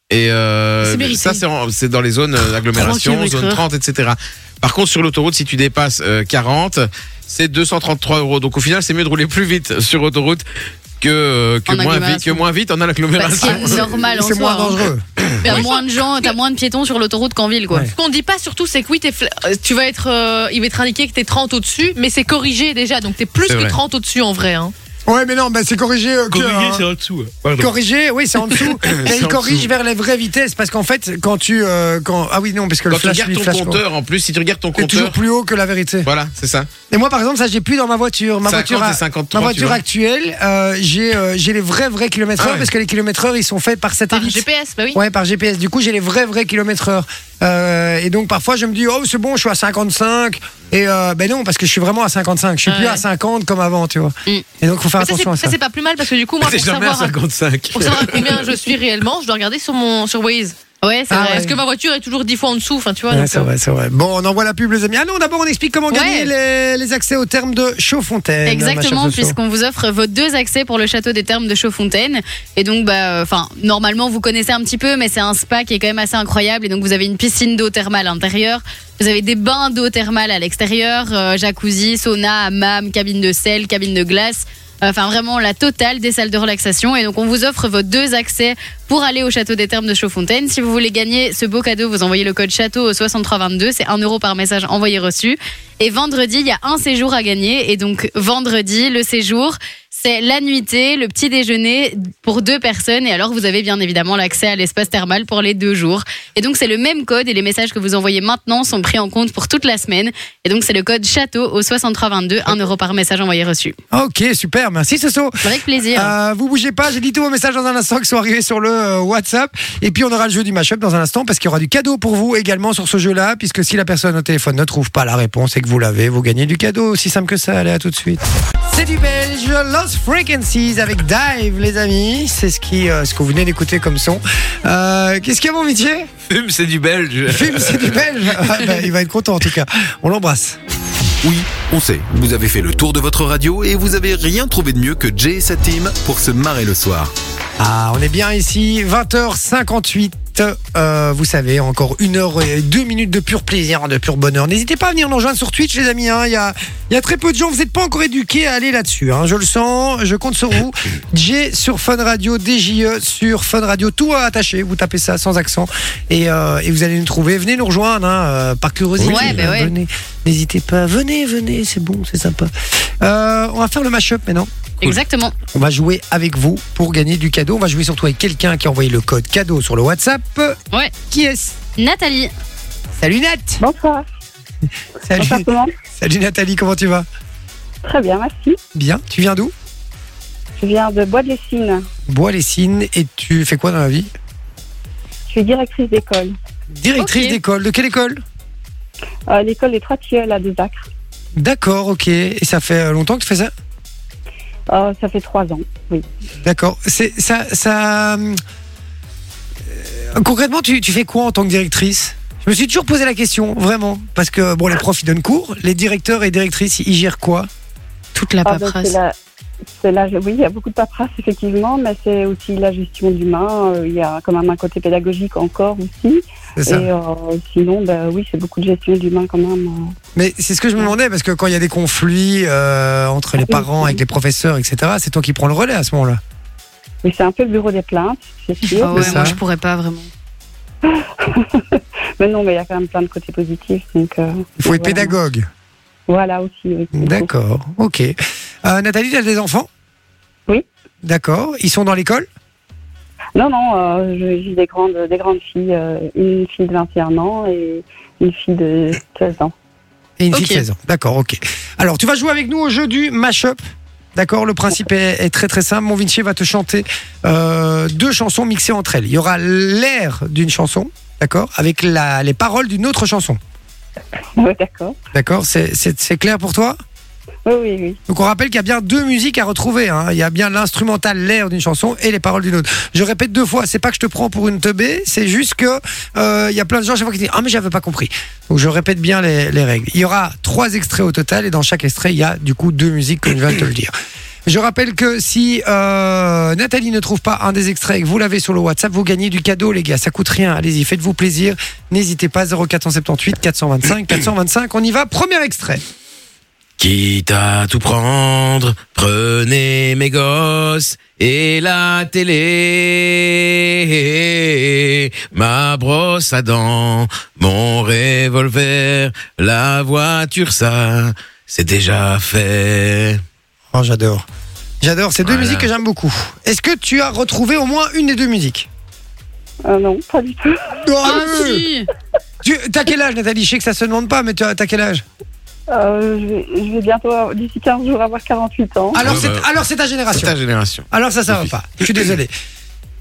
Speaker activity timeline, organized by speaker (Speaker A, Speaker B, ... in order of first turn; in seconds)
Speaker A: 0.1-10.4, 11.0-13.9, 15.3-15.6, 23.5-23.8, 26.3-27.7, 28.6-29.7, 32.9-35.2, 36.0-36.7, 38.5-39.8, 42.4-42.7, 56.4-58.4, 136.3-138.6, 169.0-169.4, 306.8-323.2, 325.2-325.7, 339.0-339.4, 340.1-342.1
Speaker B: 0.8-1.4, 2.7-3.6, 11.7-12.4, 13.2-14.8, 15.4-17.9, 60.8-61.5, 68.5-113.8, 115.4-116.1, 169.0-169.7, 174.8-175.3, 181.8-182.3, 197.0-197.4, 218.1-218.9, 238.7-240.1, 260.3-260.6, 331.0-331.9
Speaker C: 13.4-15.0, 25.1-26.9, 27.6-33.8, 34.7-36.1, 36.9-55.5, 61.1-61.6, 63.1-69.4, 113.9-136.1, 137.3-140.6, 147.6-174.5, 175.5-180.6, 181.1-181.6, 183.0-183.6, 185.0-187.1, 188.7-189.5, 192.1-194.1, 196.7-198.2, 201.4-203.5, 206.4-208.4, 209.7-217.5, 226.6-226.9, 230.1-236.2, 238.9-239.4, 244.6-245.5, 246.9-249.7, 251.0-252.3, 260.2-263.6, 264.1-273.4, 275.1-276.8, 278.1-293.9, 294.4-305.8, 323.7-324.2, 324.8-328.7, 330.8-331.6, 332.4-335.0, 338.9-340.3, 340.9-342.3
Speaker D: 15.4-16.3, 17.9-24.7, 44.1-45.0, 52.6-53.0, 55.0-57.1, 57.7-60.5, 61.3-63.5
Speaker E: 141.2-147.1
Speaker F: 183.6-184.1, 185.2-185.7, 187.8-188.6, 190.6-191.8, 195.3-196.3, 199.3-200.8, 204.7-206.1, 218.4-219.2, 219.8-229.9, 233.4-234.0, 237.0-239.3, 240.8-245.2, 246.1-247.3, 253.3-259.5, 274.4-275.0, 277.4-278.0, 329.6-330.8, 335.7-339.1